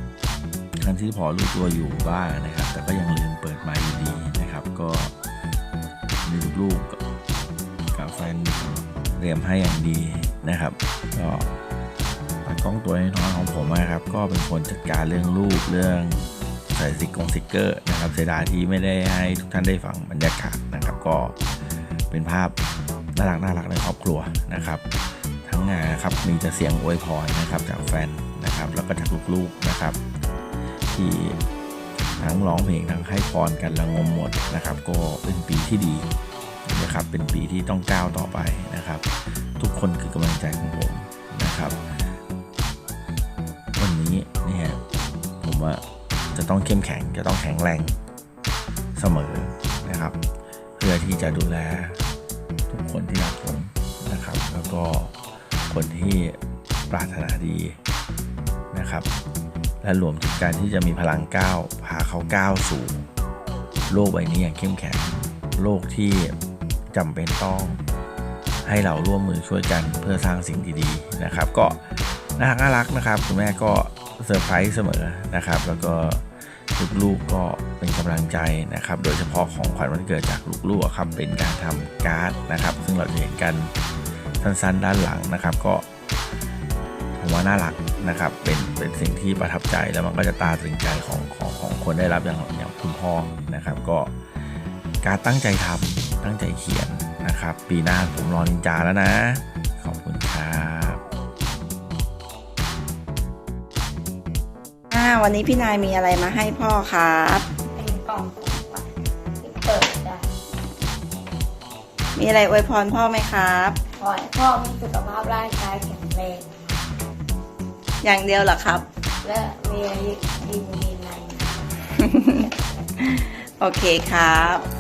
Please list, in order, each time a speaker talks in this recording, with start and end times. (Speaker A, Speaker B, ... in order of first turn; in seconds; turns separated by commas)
Speaker A: 0.8-5.1, Speaker A: 6.2-7.0, Speaker A: 7.9-11.5, Speaker A: 12.4-21.4, Speaker A: 22.1-22.6, Speaker A: 23.1-24.8, Speaker A: 25.4-30.0, Speaker A: 30.9-31.4, Speaker A: 32.2-36.1, Speaker A: 36.7-41.8, Speaker A: 43.8-44.8, Speaker A: 45.4-45.8, Speaker A: 46.3-48.0, Speaker A: 49.0-50.2, Speaker A: 50.8-52.0, Speaker A: 52.7-55.1, Speaker A: 55.7-56.4, Speaker A: 56.9-57.8, Speaker A: 58.7-59.1, Speaker A: 59.8-63.0, Speaker A: 63.9-66.3, Speaker A: 66.9-67.8, Speaker A: 68.6-83.7, Speaker A: 84.4-85.9, Speaker A: 87.2-94.2, Speaker A: 95.0-101.0, Speaker B: 104.9-107.5, Speaker C: 107.7-108.9, Speaker C: 109.4-110.3, Speaker B: 112.2-113.8, Speaker C: 114.0-116.8, Speaker B: 118.0-118.9, Speaker C: 119.2-121.5, Speaker B: 122.0-122.5, Speaker B: 123.0-124.7